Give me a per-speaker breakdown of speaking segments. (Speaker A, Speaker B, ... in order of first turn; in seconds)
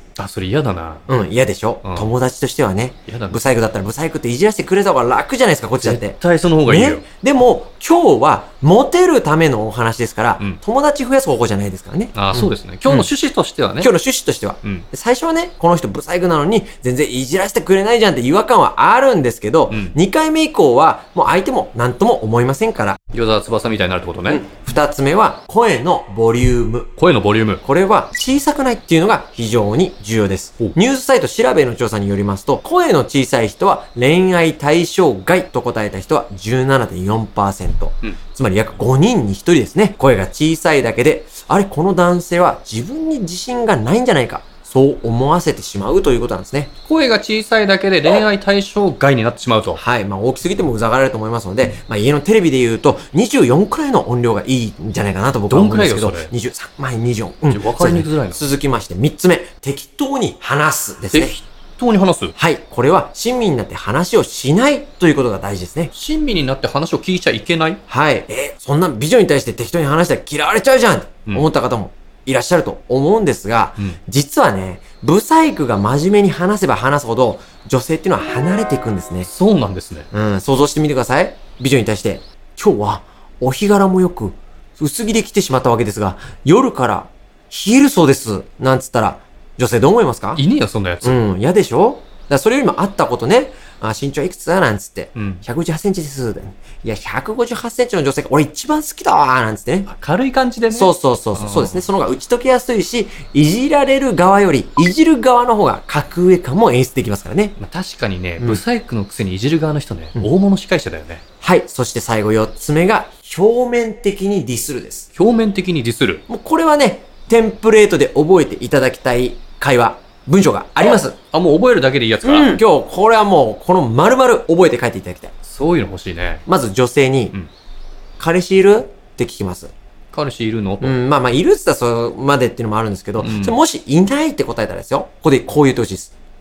Speaker A: 0.2-1.1, 1.8-2.1, 3.1-3.4, 5.8-7.0, 12.1-13.9, 19.7-19.9, 23.1-24.4, 27.0-27.6, 46.8-49.8, 55.5-56.3, 57.5-58.4, 61.1-62.4, 65.9-67.8, 79.2-80.1, 90.3-91.2, 95.1-95.4, 99.9-101.8, 107.6-111.2, 115.1-116.2, 121.3-122.6, 125.4-126.4, 130.1-130.9, 133.2-133.6
Speaker B: 1.1-13.1, 13.8-23.0, 24.3-26.9, 27.6-46.7, 49.7-61.4, 62.4-65.9, 67.9-79.3, 80.1-90.4, 91.0-99.9, 100.7-107.6, 111.4-115.1, 116.3-121.2, 122.2-125.3, 126.5-127.3, 128.2-129.7, 130.8-136.1